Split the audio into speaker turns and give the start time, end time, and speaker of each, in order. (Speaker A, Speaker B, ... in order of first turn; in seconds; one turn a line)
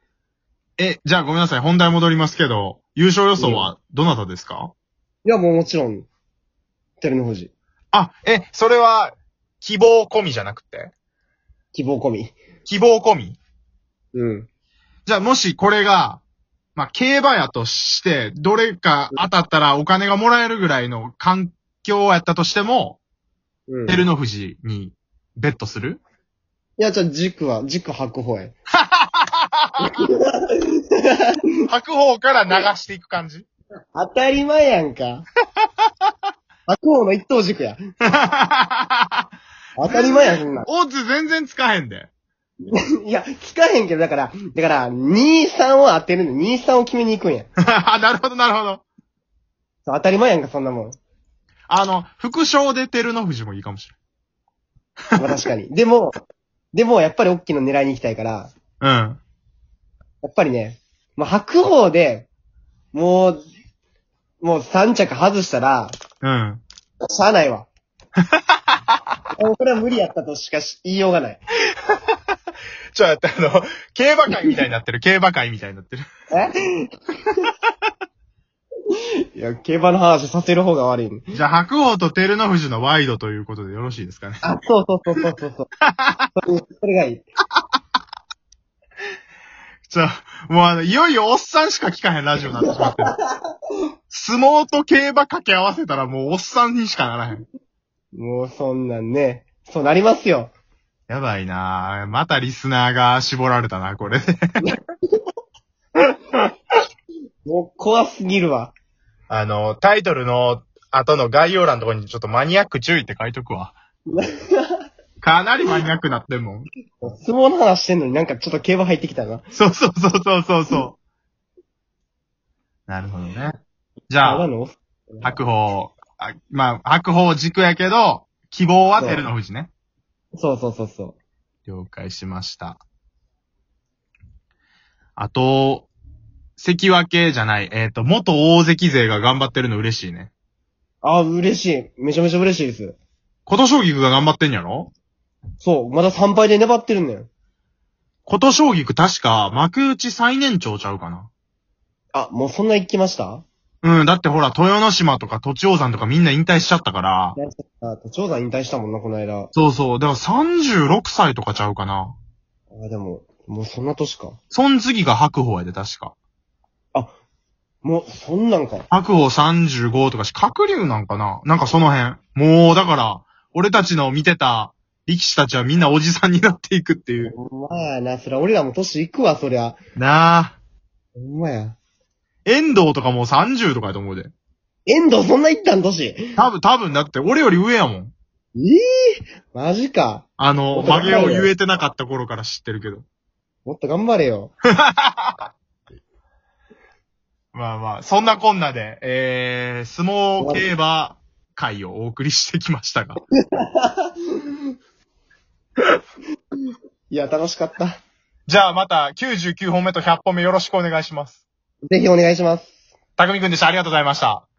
Speaker A: 0.8-4.7
Speaker B: 3.4-3.7
Speaker B: 5.2-6.1
Speaker B: 7.0-7.5
Speaker A: 7.9-10.9
Speaker B: 11.7-12.3
Speaker A: 12.7-13.4
Speaker B: 14.1-14.5
Speaker A: 15.1-16.2
Speaker A: 16.8-23.0
Speaker B: 23.7-24.1
Speaker A: 23.9-26.0
Speaker B: 26.8-28.6
Speaker A: 28.9-29.9
Speaker B: 29.8-31.4
Speaker A: 31.7-33.5
Speaker B: 34.0-35.3
Speaker B: 36.7-37.8
Speaker A: 38.0-39.2
Speaker B: 39.8-40.7
Speaker A: 39.9-42.1
Speaker B: 42.7-47.5
Speaker A: 47.6-48.8
Speaker B: 49.9-51.0
Speaker A: 51.7-54.0
Speaker B: 55.2-56.2
Speaker B: 56.7-58.5
Speaker A: 58.8-59.2
Speaker B: 60.2-62.3
Speaker B: 62.9-63.4
Speaker B: 64.4-65.9
Speaker A: 66.2-66.6
Speaker B: 67.1-67.7
Speaker A: 68.3-68.8
Speaker B: 69.4-71.4
Speaker A: 72.9-76.0
Speaker B: 76.3-76.9
Speaker B: 79.3-81.2
Speaker A: 81.3-84.4
Speaker B: 84.4-85.7
Speaker A: 85.8-86.3
Speaker B: 86.4-87.3
Speaker A: 89.9-93.1
Speaker B: 92.6-93.3
Speaker A: 94.1-97.5
Speaker B: 98.1-100.5
Speaker A: 101.1-104.6
Speaker B: 107.5-108.7
Speaker A: 109.3-113.8
Speaker B: 114.1-114.7
Speaker A: 115.2-116.7
Speaker B: 117.0-119.5
Speaker A: 119.5-121.0
Speaker A: 122.9-123.6
Speaker A: 124.1-124.5
Speaker B: 124.2-125.3
Speaker A: 125.2-129.7
Speaker B: 129.0-129.3
Speaker B: 130.4-131.2
Speaker A: 131.7-132.8
Speaker A: 135.2-135.9
Speaker A: 136.6-140.3
Speaker B: 141.0-143.0
Speaker A: 143.5-144.9
Speaker B: 145.6-147.3
Speaker A: 148.3-151.3
Speaker B: 152.1-153.4
Speaker A: 153.8-157.4
Speaker B: 157.4-159.5
Speaker A: 159.5-162.2
Speaker B: 162.7-164.4
Speaker A: 164.5-166.1
Speaker B: 167.8-168.9
Speaker A: 168.9-177.3
Speaker B: 177.2-179.8
Speaker A: 180.0-180.6
Speaker B: 181.2-181.8
Speaker A: 182.5-184.3
Speaker B: 184.9-186.2
Speaker A: 186.4-188.1
Speaker B: 188.6-191.5
Speaker A: 190.4-193.1
Speaker B: 193.7-194.5
Speaker A: 194.8-195.5
Speaker A: 197.5-203.2
Speaker B: 200.4-200.7
Speaker B: 203.5-204.4
Speaker B: 207.1-208.0
Speaker A: 208.5-211.4
Speaker B: 211.9-212.7
Speaker A: 213.2-214.5